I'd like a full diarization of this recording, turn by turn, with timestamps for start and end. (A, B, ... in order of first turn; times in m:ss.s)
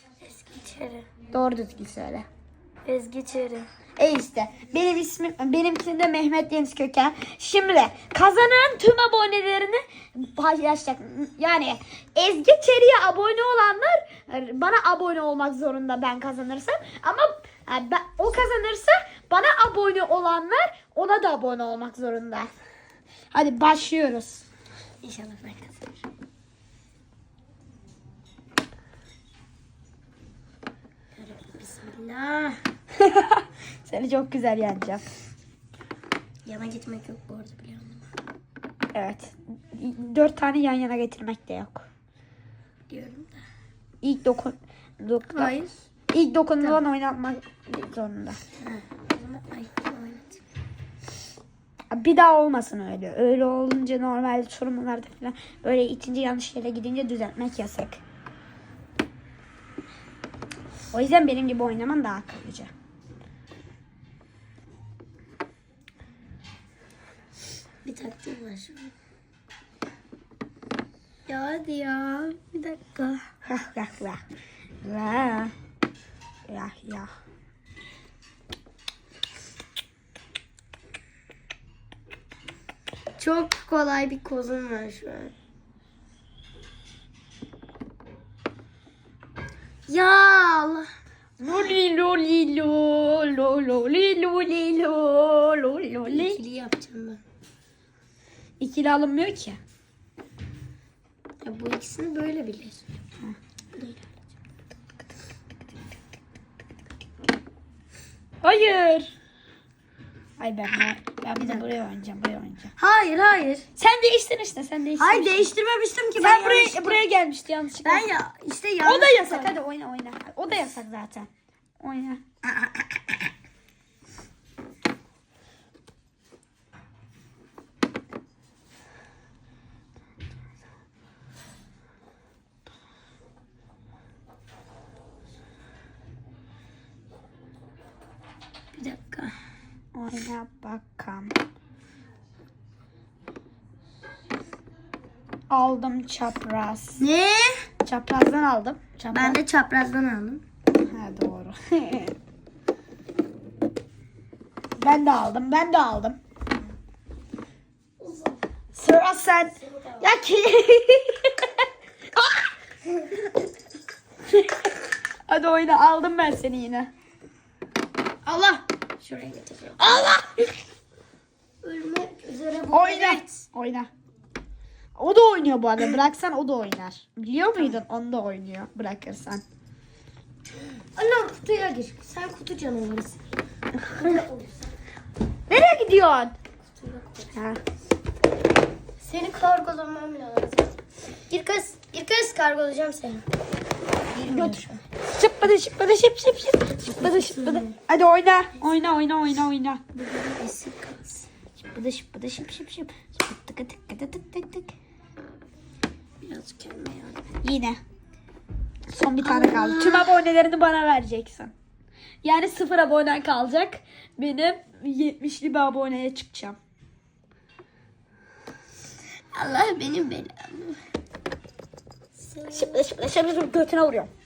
0:00.2-0:01.0 A
0:01.3-0:02.2 B
0:02.8-0:03.7 A
0:04.0-0:22.5 B
0:23.3-0:24.4 B
0:25.0-0:26.0 A
0:31.1-0:32.6 A
0:33.0-0:35.0 B
0:36.4-0:38.0 A
0:38.9-0:41.8 B
0:42.9-0:43.4 A
0:44.0-0:45.5 B
0:45.3-0:45.8 A
0:46.1-0:48.4 B
0:48.6-0:50.4 A
0:51.9-0:58.0 B
1:00.9-1:02.7 B
1:07.8-1:08.9 A
1:11.3-1:13.3 A
1:13.4-1:14.2 B
1:14.8-1:15.5 B
1:16.5-1:17.1 B
1:23.2-1:25.3 A
1:29.9-1:30.9 A
1:31.4-1:36.4 B
1:36.0-1:37.2 A
1:38.6-1:39.6 B
1:41.4-1:42.8 A
1:48.4-1:49.1 B
1:50.4-1:52.7 B
1:51.4-1:51.7 A
1:52.8-1:53.7 A
1:53.8-1:55.5 B
1:55.0-1:57.0 A
1:56.2-1:58.1 B
1:57.8-1:59.5 A
1:58.8-2:01.3 B
2:01.8-2:02.3 B
2:18.7-2:19.3 A
2:19.9-2:21.3 B
2:25.5-2:27.0 B
2:27.0-2:27.6 A
2:27.8-2:29.4 B
2:29.1-2:30.4 A
2:30.9-2:32.1 B
2:34.8-2:36.2 B
2:38.0-2:38.4 A
2:38.7-2:41.5 B
2:39.6-2:40.1 A
2:45.3-2:46.9 B
2:48.2-2:50.2 A
2:49.8-2:50.5 B
2:51.6-2:53.4 A
2:52.7-2:53.9 B
2:55.0-2:59.4 B
3:01.0-3:03.3 A
3:03.8-3:04.2 B
3:03.9-3:04.6 A
3:05.5-3:06.3 B
3:06.7-3:07.3 A
3:07.3-3:07.6 B
3:09.0-3:13.2 A
3:14.1-3:14.8 A
3:14.2-3:19.8 B
3:16.8-3:17.8 A
3:19.9-3:21.3 A
3:21.6-3:24.7 B
3:26.2-3:27.2 A
3:27.4-3:27.8 B
3:28.9-3:31.5 B
3:29.2-3:30.2 A
3:32.2-3:36.6 B
3:39.3-3:40.8 A
3:42.2-3:42.8 A
3:42.5-3:44.1 B